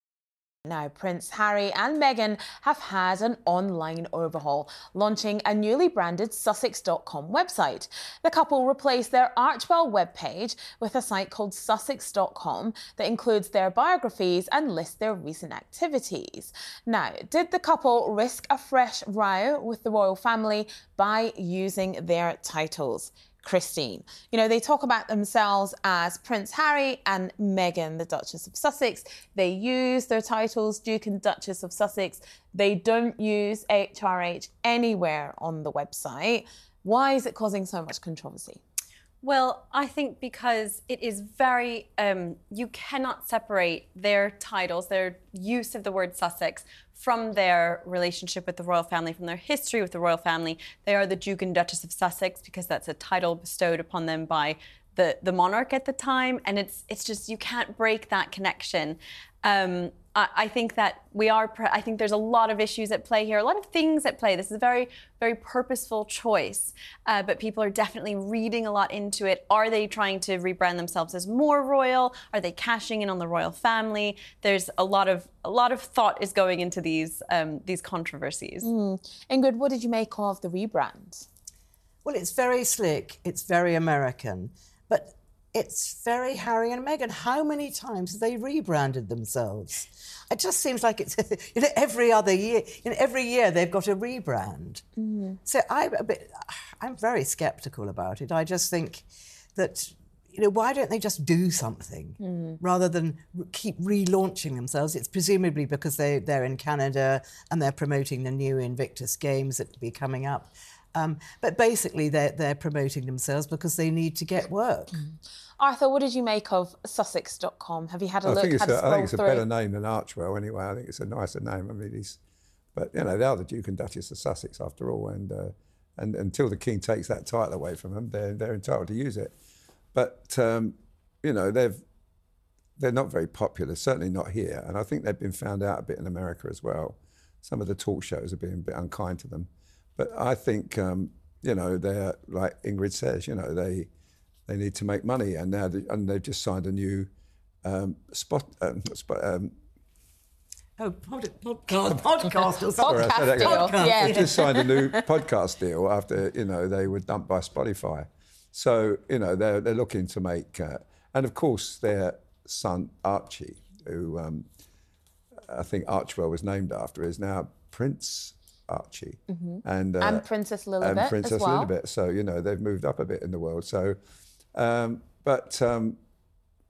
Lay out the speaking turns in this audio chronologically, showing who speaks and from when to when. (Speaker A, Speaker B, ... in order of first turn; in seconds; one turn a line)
Speaker A: 0.7-38.6
Speaker B: 39.2-78.7
Speaker A: 78.6-81.2
Speaker C: 82.0-94.8
Speaker A: 95.0-95.4
Speaker C: 95.4-115.0
Speaker A: 102.2-102.6
Speaker A: 115.6-119.4
Speaker D: 118.2-122.2
Speaker D: 122.7-129.3
Speaker D: 129.9-131.8
Speaker D: 132.8-143.9
Speaker D: 144.5-147.1
Speaker D: 147.6-149.5
Speaker C: 150.8-154.9
Speaker A: 152.8-154.9
Speaker D: 152.8-164.4
Speaker D: 165.5-170.2
Speaker A: 169.3-171.7
Speaker D: 170.8-174.0
Speaker D: 174.5-176.0